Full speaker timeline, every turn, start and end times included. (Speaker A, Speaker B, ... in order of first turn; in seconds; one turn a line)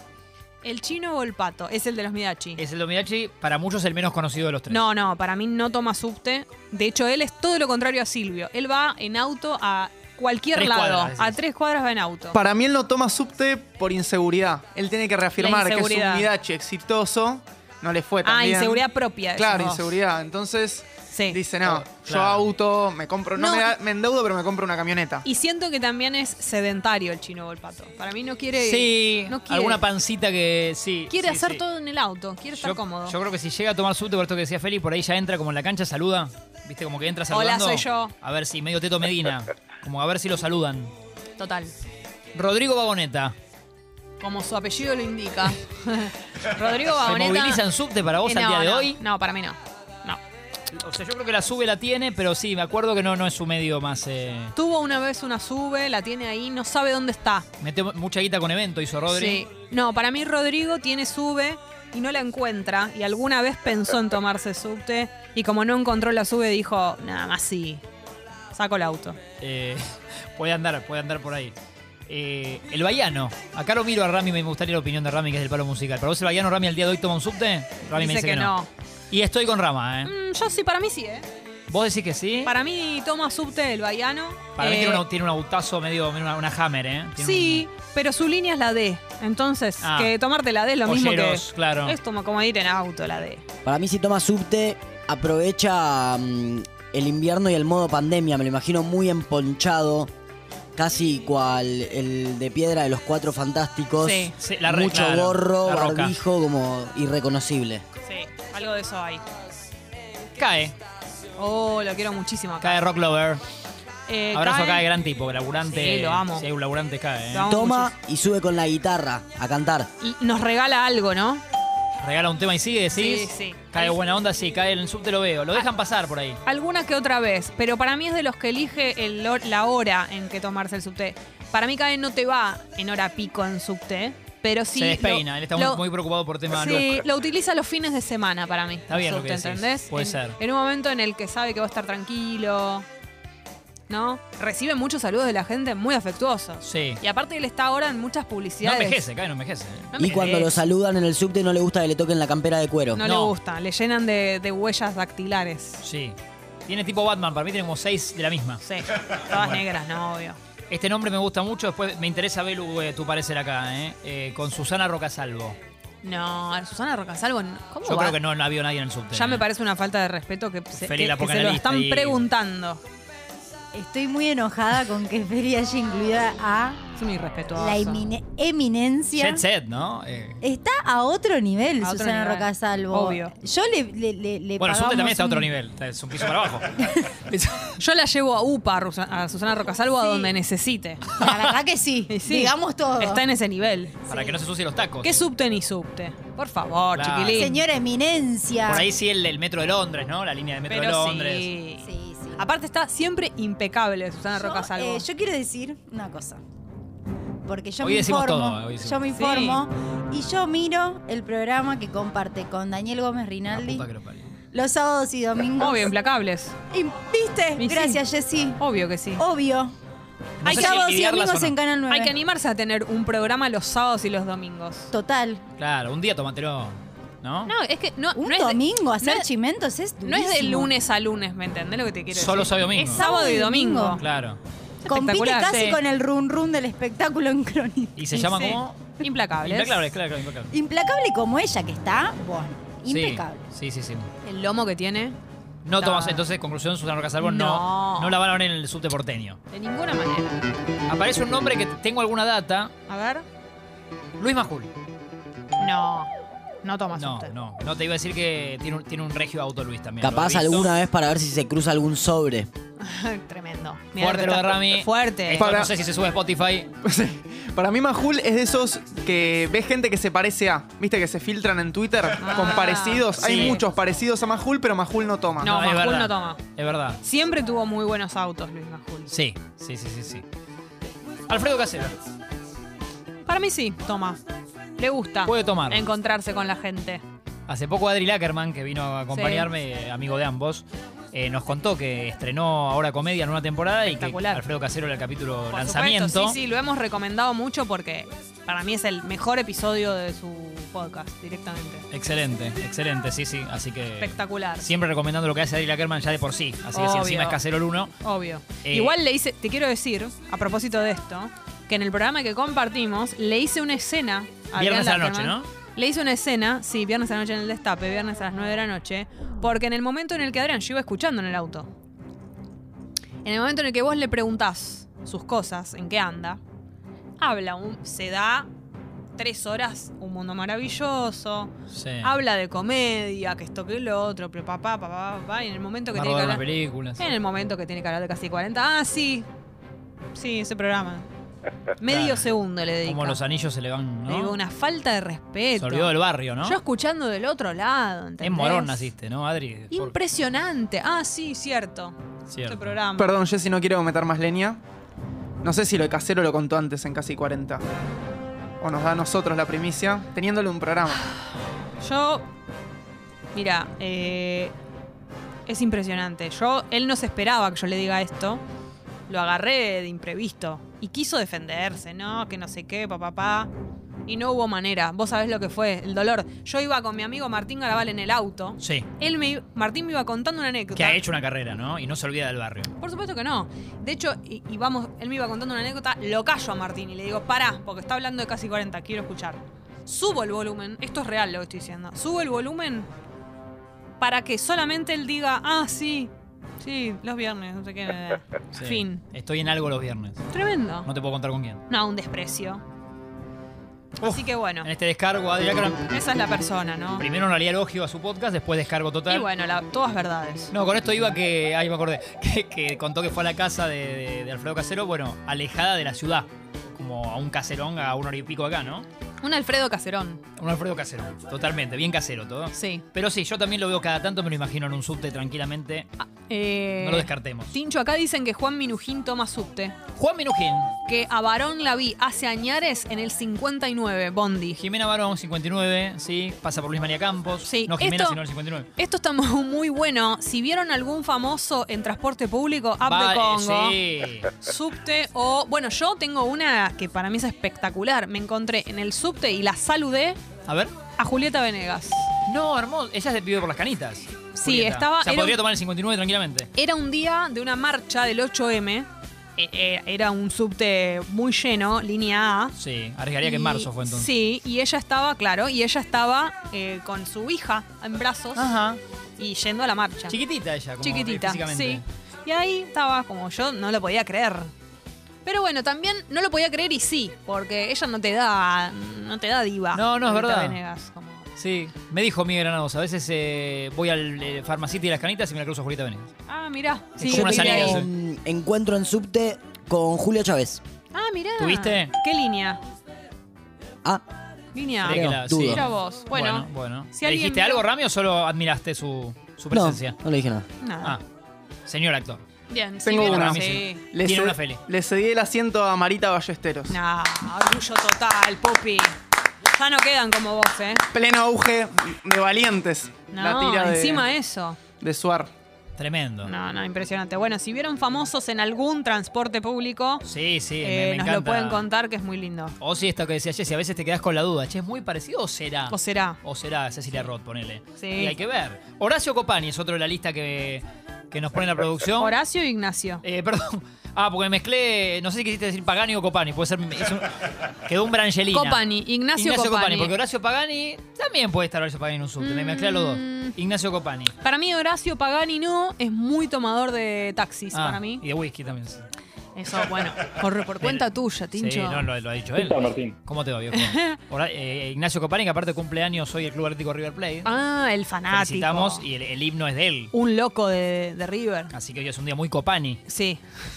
Speaker A: 0.6-2.6
Speaker B: 2.6-4.8
Speaker A: 4.7-12.4
Speaker B: 10.5-11.4
Speaker C: 12.3-18.8
Speaker A: 15.4-16.3
Speaker A: 18.2-20.0
Speaker C: 19.4-25.3
Speaker A: 21.1-21.4
Speaker B: 21.6-22.5
Speaker A: 23.4-23.7
Speaker A: 25.2-29.8
Speaker B: 28.6-31.6
Speaker A: 31.1-33.2
Speaker B: 32.5-40.9
Speaker A: 37.3-38.1
Speaker A: 41.4-41.7
Speaker B: 42.3-43.4
Speaker A: 44.2-47.7
Speaker B: 46.9-49.0
Speaker A: 48.2-50.2
Speaker B: 50.7-54.5
Speaker A: 54.5-57.5
Speaker B: 57.6-59.4
Speaker A: 59.1-67.8
Speaker A: 68.5-69.2
Speaker B: 69.4-71.5
Speaker B: 72.1-78.5
Speaker A: 78.0-78.7
Speaker B: 79.1-80.1
Speaker A: 80.0-81.3
Speaker B: 81.7-82.5
Speaker A: 82.5-85.1
Speaker B: 84.6-87.7
Speaker A: 87.2-93.4
Speaker B: 89.8-90.1
Speaker B: 90.8-92.0
Speaker D: 93.7-100.1
Speaker D: 100.8-107.8
Speaker A: 104.0-104.4
Speaker B: 104.4-106.2
Speaker A: 108.0-109.2
Speaker B: 110.4-110.8
Speaker A: 111.4-112.8
Speaker B: 112.6-113.4
Speaker A: 114.1-114.9
Speaker B: 114.3-117.5
Speaker A: 115.7-116.5
Speaker A: 117.3-118.0
Speaker D: 117.5-119.9
Speaker A: 120.0-121.4
Speaker B: 122.0-126.4
Speaker A: 122.9-124.0
Speaker A: 126.5-135.9
Speaker B: 134.7-137.0
Speaker A: 136.5-142.9
Speaker B: 138.9-140.4
Speaker A: 143.9-149.1
Speaker B: 146.6-147.0
Speaker B: 148.6-150.3
Speaker A: 149.9-150.6
Speaker D: 150.0-153.1
Speaker A: 152.9-155.8
Speaker B: 153.0-153.3
Speaker B: 155.8-158.6
Speaker A: 158.6-160.4
Speaker B: 159.3-159.6
Speaker B: 160.7-165.6
Speaker A: 166.0-168.2
Speaker B: 167.8-169.4
Speaker A: 169.1-172.8
Speaker B: 170.7-172.3
Speaker E: 173.7-176.8
Speaker A: 177.0-178.1
Speaker E: 177.5-179.4
Speaker B: 179.1-180.4
Speaker E: 180.4-185.5
Speaker A: 181.8-183.3
Speaker B: 184.6-187.8
Speaker A: 187.8-191.0
Speaker B: 191.1-191.5
Speaker E: 191.2-193.2
Speaker A: 192.1-194.1
Speaker E: 194.1-194.4
Speaker B: 194.1-195.2
Speaker A: 195.0-197.6
Speaker B: 196.9-197.4
Speaker E: 197.3-198.9
Speaker B: 198.6-201.5
Speaker A: 200.7-205.1
Speaker E: 201.8-202.4
Speaker E: 204.3-206.4
Speaker E: 207.4-213.8
Speaker B: 207.8-209.0
Speaker A: 209.1-209.6
Speaker B: 213.5-214.3
Speaker E: 214.5-215.9
Speaker A: 215.6-216.6
Speaker E: 216.7-218.6
Speaker A: 217.6-218.1
Speaker A: 218.6-219.2
Speaker E: 219.2-219.8
Speaker B: 220.4-221.6
Speaker E: 220.4-222.1
Speaker A: 220.4-221.0
Speaker A: 221.9-224.9
Speaker E: 224.9-225.5
Speaker B: 225.6-227.5
Speaker A: 227.5-229.3
Speaker E: 228.2-230.7
Speaker A: 230.0-234.1
Speaker B: 232.1-233.1
Speaker E: 232.9-234.0
Speaker B: 234.0-234.4
Speaker A: 234.8-235.8
Speaker E: 234.9-238.1
Speaker B: 238.0-240.5
Speaker A: 238.1-239.9
Speaker E: 240.5-243.5
Speaker B: 242.9-244.1
Speaker A: 244.2-245.2
Speaker B: 245.7-249.4
Speaker A: 245.8-246.2
Speaker A: 247.2-248.2
Speaker A: 249.5-250.4
Speaker B: 250.9-252.7
Speaker A: 252.9-253.2
Speaker B: 254.2-254.7
Speaker A: 255.6-256.1
Speaker A: 256.6-257.3
Speaker B: 257.0-260.7
Speaker D: 260.0-262.5
Speaker A: 262.8-265.6
Speaker B: 264.0-266.7
Speaker C: 265.4-265.7
Speaker C: 266.8-275.5
Speaker A: 272.2-273.6
Speaker B: 273.2-273.6
Speaker B: 275.4-277.0
Speaker A: 275.4-276.4
Speaker A: 277.0-279.1
Speaker B: 279.1-280.2
Speaker B: 281.3-282.0
Speaker A: 283.3-284.2
Speaker A: 284.8-287.0
Speaker B: 285.3-285.8
Speaker B: 287.5-296.4
Speaker A: 289.1-289.5
Speaker A: 293.9-294.5
Speaker A: 295.5-301.9
Speaker B: 301.9-307.9
Speaker A: 304.0-304.7
Speaker A: 306.7-307.4
Speaker A: 308.0-321.7
Speaker B: 308.6-309.0
Speaker B: 314.6-315.5
Speaker A: 323.2-326.4
Speaker A: 327.2-328.5
Speaker A: 329.2-331.5
Speaker B: 331.7-332.1
Speaker A: 332.0-339.3
Speaker B: 335.9-337.1
Speaker A: 340.1-341.1
Speaker A: 341.8-343.2
Speaker B: 341.9-342.3
Speaker B: 342.8-344.4
Speaker A: 344.1-348.9
Speaker B: 345.6-346.6
Speaker B: 348.2-349.9
Speaker A: 349.7-352.0
Speaker B: 352.3-352.8
Speaker A: 352.5-353.1
Speaker C: 353.0-354.6
Speaker C: 355.4-357.6
Speaker C: 358.6-361.1
Speaker A: 361.8-362.3
Speaker A: 363.3-364.5
Speaker A: 365.5-368.4
Speaker A: 369.1-373.5
Speaker A: 374.1-381.0
Speaker B: 378.6-378.9
Speaker B: 380.7-382.7
Speaker A: 382.8-392.9
Speaker A: 394.0-399.0
Speaker B: 398.5-400.2
Speaker A: 400.3-400.9
Speaker B: 400.9-401.6
Speaker A: 401.7-402.6
Speaker B: 404.0-405.9
Speaker A: 404.0-404.7
Speaker A: 405.9-407.1
Speaker B: 407.0-409.3
Speaker A: 409.1-410.5
Speaker B: 410.5-418.9
Speaker A: 419.2-420.2
Speaker B: 420.4-425.9
Speaker A: 422.6-422.9
Speaker A: 426.1-429.8
Speaker B: 426.8-427.5
Speaker B: 429.9-430.7
Speaker A: 430.9-434.6
Speaker B: 434.6-438.7
Speaker A: 437.4-438.2
Speaker A: 438.8-450.2
Speaker B: 442.9-444.4
Speaker B: 450.5-450.8
Speaker A: 451.0-452.1
Speaker B: 452.2-456.5
Speaker A: 454.4-455.4
Speaker A: 456.5-462.5
Speaker B: 462.6-464.1
Speaker A: 463.2-468.5
Speaker B: 468.4-468.8
Speaker A: 469.2-470.2
Speaker B: 470.1-471.8
Speaker A: 470.8-474.5
Speaker A: 475.2-481.3
Speaker B: 479.7-480.6
Speaker B: 481.4-486.1
Speaker A: 486.3-487.9
Speaker B: 487.0-487.9
Speaker D: 487.0-490.6
Speaker A: 490.9-492.6
Speaker B: 491.4-491.9
Speaker A: 494.5-497.7
Speaker D: 494.8-495.6
Speaker B: 494.8-500.0
Speaker D: 499.5-500.5
Speaker A: 500.6-501.0
Speaker B: 501.7-502.2
Speaker A: 502.5-503.9
Speaker C: 502.9-506.8
Speaker B: 503.0-504.6
Speaker A: 506.7-508.9
Speaker A: 509.5-510.8
Speaker C: 510.9-514.1
Speaker A: 513.1-514.6
Speaker C: 514.8-515.3
Speaker B: 515.8-516.3
Speaker A: 516.2-520.1
Speaker B: 520.0-521.7
Speaker A: 520.6-522.6
Speaker B: 522.6-532.1
Speaker A: 525.7-526.2
Speaker A: 527.8-528.2
Speaker A: 532.0-533.0
Speaker B: 533.0-538.6
Speaker A: 538.3-540.0
Speaker B: 539.1-544.1
Speaker A: 542.2-543.4
Speaker A: 544.2-548.0
Speaker B: 547.5-548.9
Speaker A: 549.4-551.9
Speaker B: 550.6-557.3
Speaker A: 553.5-554.0
Speaker A: 557.2-558.9
Speaker B: 558.1-559.9
Speaker A: 559.9-561.5
Speaker B: 561.5-562.8
Speaker A: 562.9-563.2